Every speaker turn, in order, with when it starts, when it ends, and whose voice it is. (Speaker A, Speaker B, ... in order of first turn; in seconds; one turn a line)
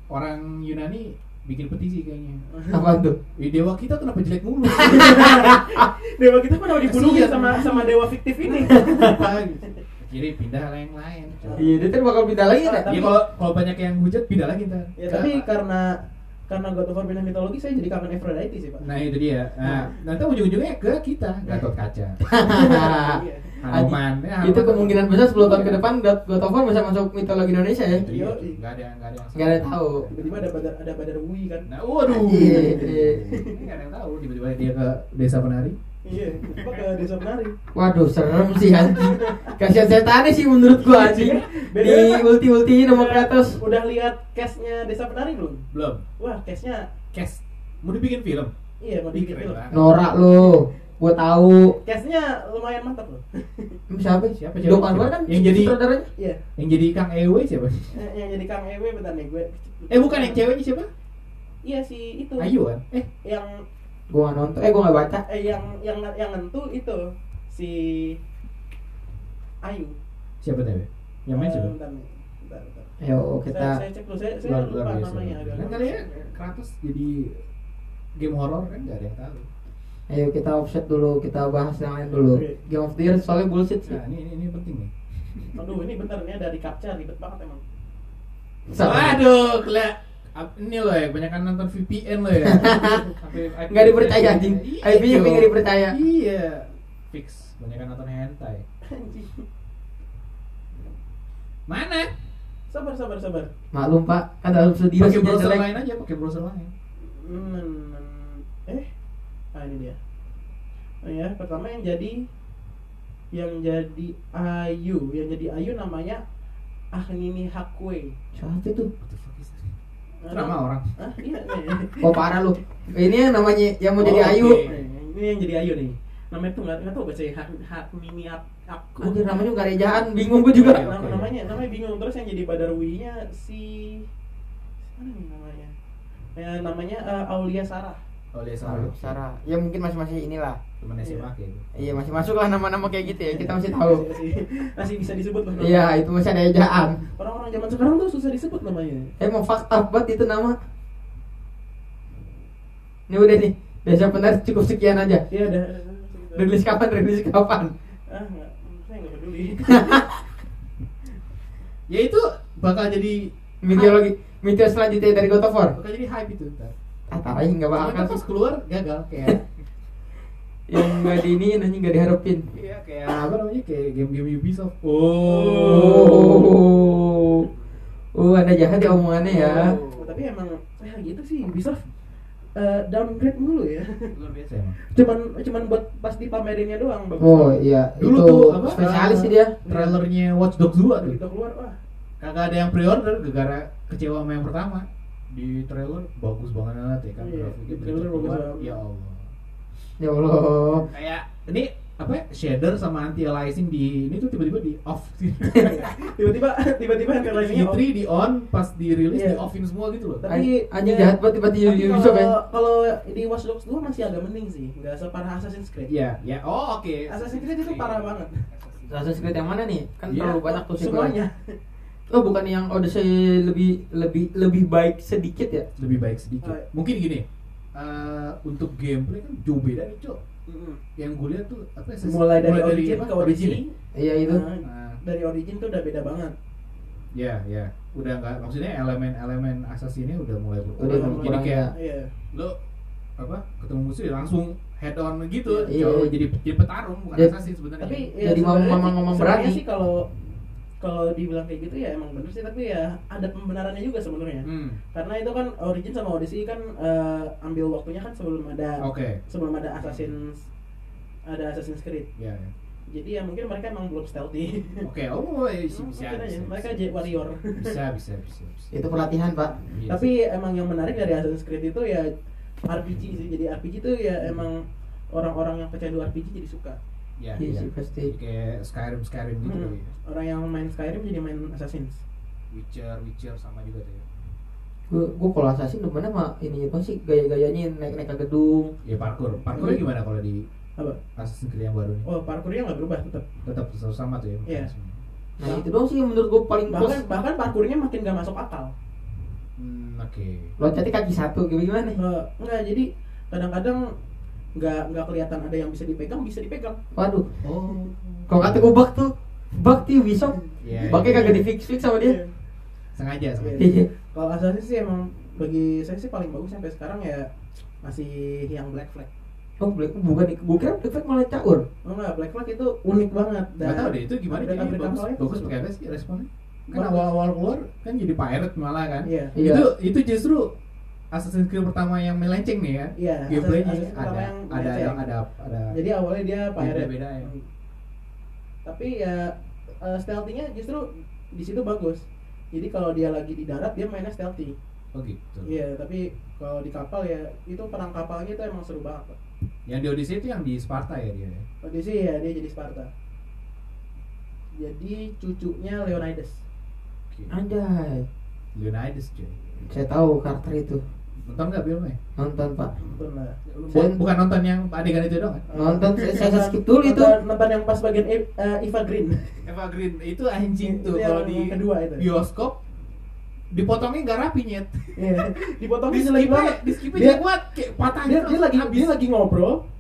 Speaker A: 0.1-2.4
Speaker B: 2.5-2.8
Speaker C: 2.7-3.2
Speaker A: 3.4-5.5
Speaker C: 4.8-5.9
Speaker B: 4.8-9.7
Speaker A: 6.7-7.8
Speaker A: 8.6-11.7
Speaker C: 8.6-9.3
Speaker B: 11.4-11.7
Speaker C: 11.6-13.1
Speaker B: 12.6-13.1
Speaker A: 12.9-15.5
Speaker B: 15.0-18.9
Speaker A: 18.8-22.2
Speaker B: 19.6-19.9
Speaker C: 22.3-28.1
Speaker B: 22.5-23.6
Speaker A: 23.6-25.8
Speaker A: 27.9-30.7
Speaker B: 28.1-28.6
Speaker C: 29.4-30.1
Speaker B: 30.1-33.6
Speaker A: 31.7-35.8
Speaker C: 32.1-33.2
Speaker B: 36.0-37.5
Speaker C: 37.7-43.6
Speaker B: 38.8-39.5
Speaker B: 40.8-42.2
Speaker B: 42.9-45.6
Speaker A: 45.7-46.0
Speaker B: 46.2-46.9
Speaker A: 47.1-48.5
Speaker B: 48.8-49.6
Speaker A: 49.1-49.9
Speaker C: 49.7-51.8
Speaker B: 51.8-53.8
Speaker C: 53.9-56.1
Speaker A: 54.3-55.8
Speaker A: 56.6-58.0
Speaker B: 57.9-60.5
Speaker A: 59.9-60.9
Speaker B: 61.6-62.5
Speaker A: 62.4-63.1
Speaker B: 63.2-63.6
Speaker C: 64.1-65.2
Speaker B: 65.3-68.2
Speaker B: 69.6-70.0
Speaker A: 70.4-71.7
Speaker B: 71.3-72.9
Speaker C: 73.0-73.8
Speaker B: 73.5-76.3
Speaker A: 74.4-77.4
Speaker A: 78.2-79.5
Speaker C: 80.1-84.0
Speaker B: 82.1-82.6
Speaker A: 83.8-85.5
Speaker B: 85.5-87.6
Speaker C: 88.7-89.2
Speaker A: 88.8-98.6
Speaker C: 92.4-93.0
Speaker C: 93.7-96.0
Speaker B: 98.9-99.5
Speaker A: 101.7-102.1
Speaker B: 102.7-103.5
Speaker C: 103.7-105.7
Speaker A: 105.0-106.7
Speaker B: 107.0-108.9
Speaker B: 109.5-110.0
Speaker B: 111.0-112.3
Speaker B: 113.3-116.2
Speaker B: 116.9-118.1
Speaker C: 118.3-118.9
Speaker A: 119.0-119.7
Speaker B: 120.2-122.3
Speaker A: 120.3-120.9
Speaker C: 122.0-124.7
Speaker A: 124.0-124.8
Speaker B: 124.7-130.1
Speaker C: 129.0-130.8
Speaker A: 130.5-131.4
Speaker B: 130.6-134.1
Speaker B: 134.9-135.8
Speaker B: 136.4-138.0
Speaker A: 138.3-139.2
Speaker C: 138.6-140.6
Speaker A: 140.8-141.7
Speaker B: 141.0-141.3
Speaker C: 141.7-144.1
Speaker B: 143.1-145.9
Speaker C: 145.6-147.1
Speaker B: 147.2-149.1
Speaker C: 149.2-150.6
Speaker C: 153.1-155.3
Speaker B: 155.3-156.5
Speaker C: 156.3-157.8
Speaker B: 158.1-160.1
Speaker C: 159.7-160.2
Speaker A: 161.9-163.9
Speaker C: 163.6-165.8
Speaker A: 165.8-166.7
Speaker C: 167.1-168.2
Speaker A: 167.7-169.5
Speaker C: 170.7-172.5
Speaker A: 172.5-176.6
Speaker B: 175.3-175.9
Speaker C: 175.5-177.5
Speaker C: 178.2-179.8
Speaker A: 179.3-180.2
Speaker B: 179.3-181.8
Speaker B: 182.6-184.1
Speaker A: 184.1-184.8
Speaker B: 184.8-187.6
Speaker C: 187.2-189.6
Speaker A: 188.0-191.2
Speaker B: 189.6-190.0
Speaker B: 191.0-191.8
Speaker A: 192.2-199.3
Speaker B: 197.2-198.8
Speaker C: 200.0-200.9
Speaker A: 200.9-206.0
Speaker B: 205.5-207.8
Speaker A: 207.2-210.2
Speaker B: 209.1-209.4
Speaker B: 210.2-215.9
Speaker C: 210.3-212.3
Speaker A: 215.9-219.3
Speaker B: 217.1-218.4
Speaker C: 218.9-221.2
Speaker A: 220.1-220.4
Speaker B: 220.4-221.6
Speaker C: 222.1-225.7
Speaker A: 225.8-230.2
Speaker B: 230.5-230.8
Speaker A: 231.0-233.6
Speaker B: 232.0-236.3
Speaker C: 233.9-234.4
Speaker A: 234.6-235.0
Speaker A: 237.1-241.7
Speaker C: 240.8-241.7
Speaker B: 240.8-242.1
Speaker A: 243.2-248.1
Speaker C: 245.7-246.1
Speaker B: 247.8-250.1
Speaker C: 248.2-249.6
Speaker B: 250.8-260.5
Speaker A: 254.4-254.8
Speaker A: 258.8-259.2
Speaker A: 259.8-260.2
Speaker B: 261.3-262.1
Speaker A: 262.2-262.5
Speaker B: 262.9-264.9
Speaker A: 264.8-268.7
Speaker B: 265.7-267.8
Speaker C: 268.7-269.7
Speaker A: 269.7-270.1
Speaker B: 269.9-272.1
Speaker B: 272.6-276.8
Speaker A: 277.2-279.9
Speaker C: 277.4-278.1
Speaker B: 279.4-282.0
Speaker A: 282.5-284.1
Speaker C: 284.9-288.8
Speaker A: 288.8-290.4
Speaker B: 289.3-289.8
Speaker C: 289.6-289.8
Speaker A: 291.2-292.1
Speaker B: 292.1-293.3
Speaker A: 293.4-295.0
Speaker C: 295.4-297.0
Speaker B: 296.7-298.7
Speaker A: 299.6-300.5
Speaker C: 300.6-302.0
Speaker B: 302.0-303.9
Speaker B: 304.6-306.8
Speaker C: 306.9-307.5
Speaker A: 307.4-308.7
Speaker C: 308.3-312.2
Speaker B: 310.5-312.3
Speaker A: 310.6-311.4
Speaker A: 312.9-313.6
Speaker B: 313.4-317.3
Speaker C: 313.6-313.9
Speaker B: 317.8-319.1
Speaker C: 319.6-321.6
Speaker B: 321.8-325.5
Speaker A: 323.6-330.5
Speaker B: 326.7-327.1
Speaker B: 329.0-329.3
Speaker C: 329.4-329.7
Speaker A: 331.1-335.8
Speaker B: 333.0-335.1
Speaker B: 335.7-337.5
Speaker A: 336.6-337.3
Speaker B: 338.6-344.6
Speaker A: 344.9-345.5
Speaker B: 345.4-349.2
Speaker A: 349.7-351.5
Speaker B: 351.6-352.9
Speaker B: 354.6-356.4
Speaker C: 357.3-358.1
Speaker A: 358.6-359.4
Speaker C: 359.6-360.8
Speaker A: 361.2-362.0
Speaker C: 362.2-362.7
Speaker B: 362.8-363.4
Speaker A: 363.5-365.4
Speaker C: 363.7-364.0
Speaker B: 365.5-369.4
Speaker C: 365.6-367.1
Speaker A: 369.4-372.6
Speaker B: 370.6-372.1
Speaker A: 373.5-378.9
Speaker B: 375.0-377.2
Speaker B: 378.0-379.6